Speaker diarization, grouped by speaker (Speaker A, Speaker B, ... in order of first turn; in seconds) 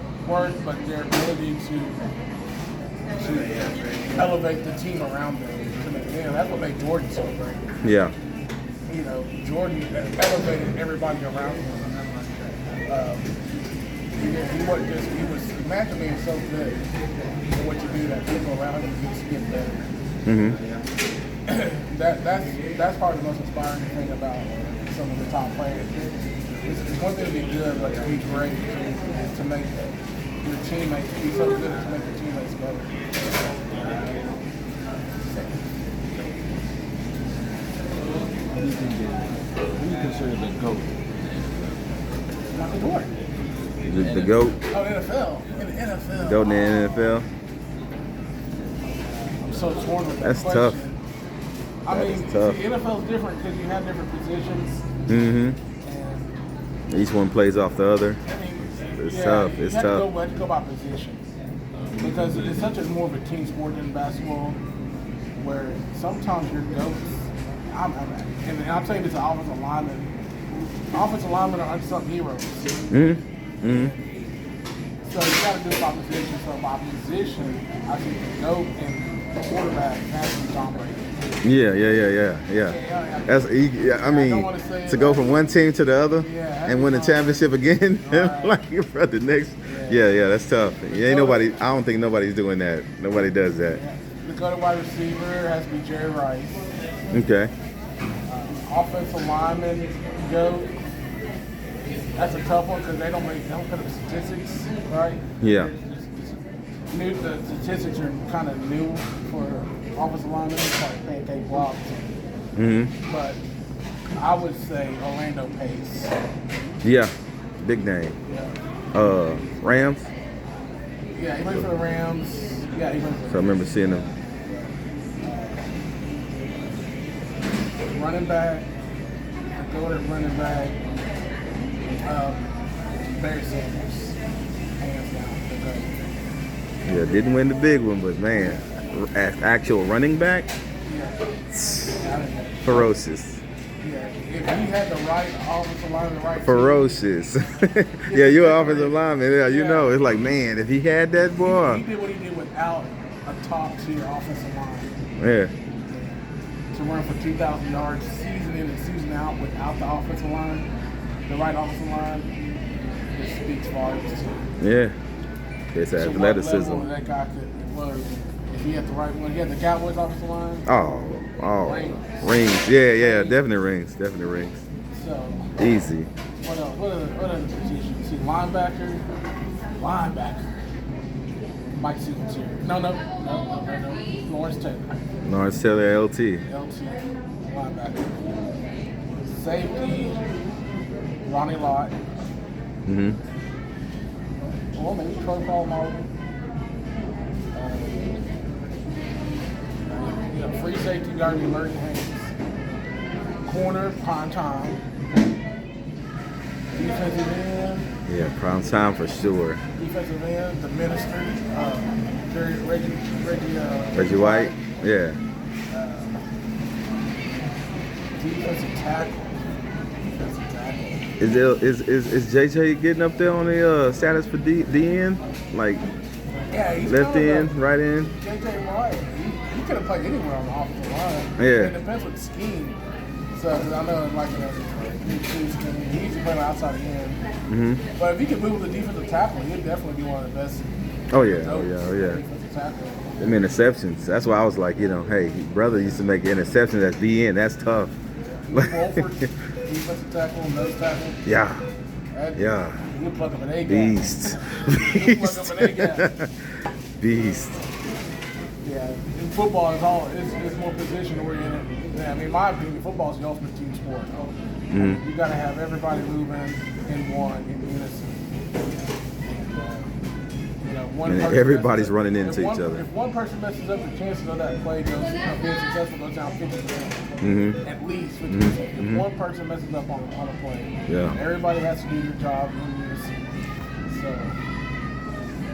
Speaker A: 0.2-2.0, 3.2-7.6, 8.9-12.0, 12.9-13.3, 14.2-16.8, 17.5-19.9, 21.5-25.9, 26.6-29.8, 30.4-33.0, 35.2-35.6, 42.5-43.1, 44.7-47.2, 49.5-51.0, 51.8-54.9, 55.8-56.4, 58.2-61.3, 62.0-64.6, 65.4-70.1, 70.9-72.8, 73.7-74.0, 75.0-81.2, 82.6-85.5, 86.2-88.5, 89.7-90.0, 91.0-91.5, 93.7-96.6, 98.3-100.7, 101.9-112.2, 113.0-113.4, 114.2-116.1, 118.3-118.6, 121.1-123.7, 124.4-125.7, 127.9-128.7, 129.5-130.8, 132.0-134.2, 134.8-135.9, 140.8-142.9, 143.8-146.9, 148.1-149.9, 151.4-154.9, 156.7-160.7, 161.3-162.3, 163.1-164.4, 165.9-170.7, 171.6-172.3, 172.9-173.4, 174.9-175.5, 176.4-179.0, 179.8-180.5, 181.7-185.0, 186.4-188.3, 189.2-190.2, 191.2-191.9, 194.7-196.1, 197.5-198.2, 199.9-202.3, 203.4-204.8, 206.7-207.9, 209.8-214.7, 215.7-216.2, 218.2-219.5, 220.1-221.0, 226.5-227.5, 228.2-232.8, 233.3-237.2, 237.9-243.1, 248.3-251.2, 252.1-256.1, 257.1-257.6, 258.6-268.2, 269.2-269.9, 270.6-277.0, 277.6-283.1, 283.9-284.4
Speaker B: 7.8-8.1, 20.2-20.6, 43.8-44.6, 46.2-47.3, 50.2-50.8, 51.9-52.6, 55.1-55.6, 56.9-58.2, 59.0-60.1, 72.9-73.9, 81.4-93.8, 97.1-97.5, 105.4-105.7, 112.5-112.9, 116.8-118.2, 118.9-120.1, 123.3-124.1, 136.8-140.5, 142.6-143.4, 146.4-151.8, 155.2-155.5, 164.6-164.9, 165.7-166.9, 170.7-174.6, 175.6-176.1, 185.2-186.4, 192.8-193.2, 208.1-209.6, 213.9-215.2, 221.2-225.8, 226.9-228.1, 231.4-231.8, 237.5-237.8, 241.1-242.2, 243.2-247.9, 248.5-249.1, 251.2-251.6, 252.3-252.8, 253.6-256.4, 257.0-257.6, 264.7-265.0, 271.0-272.8, 277.2-277.6, 278.3-279.0, 280.9-281.1
Speaker C: 38.5-41.0